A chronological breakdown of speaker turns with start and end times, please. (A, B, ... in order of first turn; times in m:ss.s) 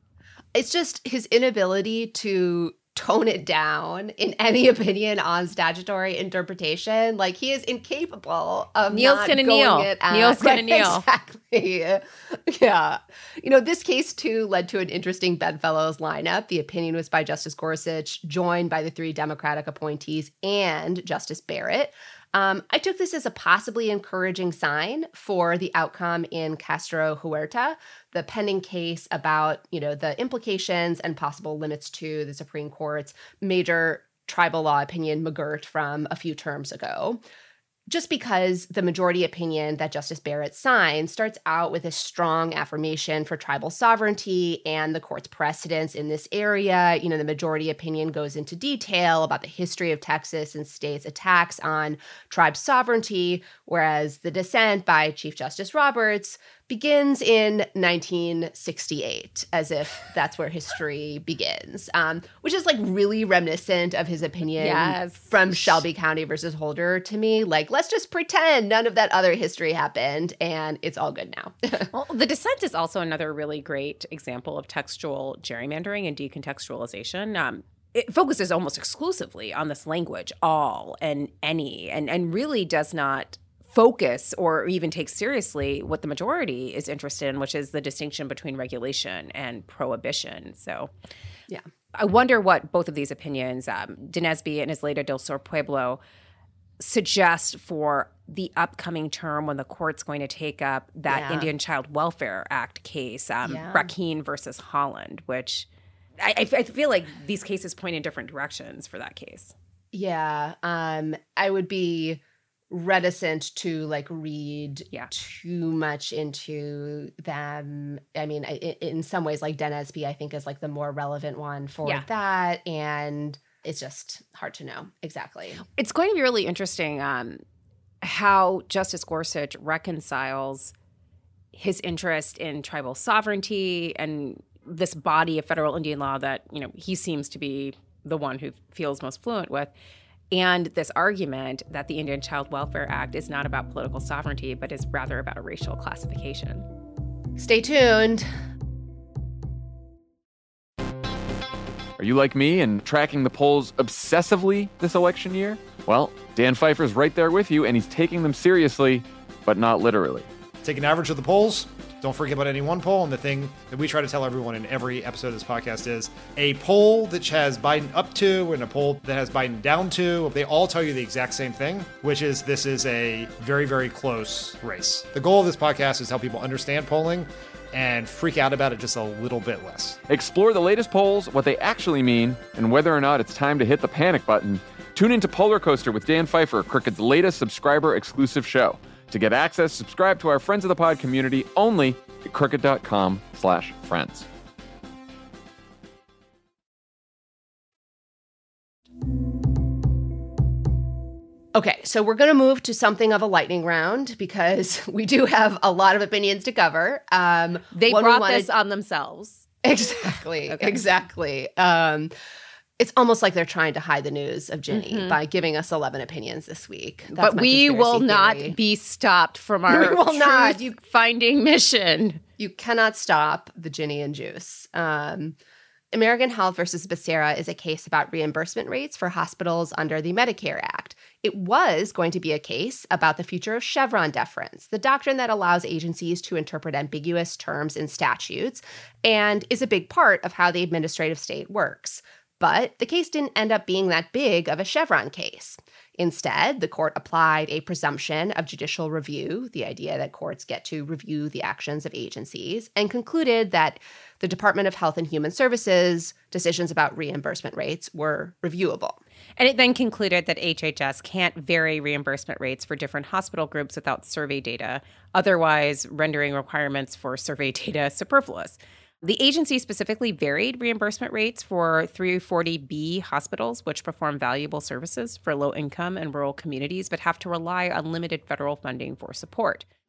0:00.5-0:37.2 A
0:08.9-0:11.0 B
0:37.9-1:11.9 A
1:04.6-1:05.8 B
1:11.9-1:30.9 B
1:31.9-1:36.0 B
1:36.8-1:45.7 B
1:41.1-1:41.5 A
1:43.4-1:43.9 A
1:46.2-1:49.5 B
1:49.9-2:05.6 A
2:05.6-2:07.4 B
2:08.0-2:10.7 B
2:11.5-2:19.7 B
2:20.3-2:26.7 B
2:27.4-2:28.3 A
2:32.0-2:40.3 C
2:40.6-3:00.0 D
3:00.1-3:14.3 C
3:21.5-3:28.5 A
3:27.7-3:29.5 B
3:29.6-3:32.1 A
3:30.5-3:30.8 B
3:32.8-3:38.6 A
3:34.7-3:35.2 B
3:37.1-3:42.2 B
3:39.7-3:40.7 A
3:42.4-3:45.4 A
3:45.9-4:19.0 A
4:19.4-4:39.6 B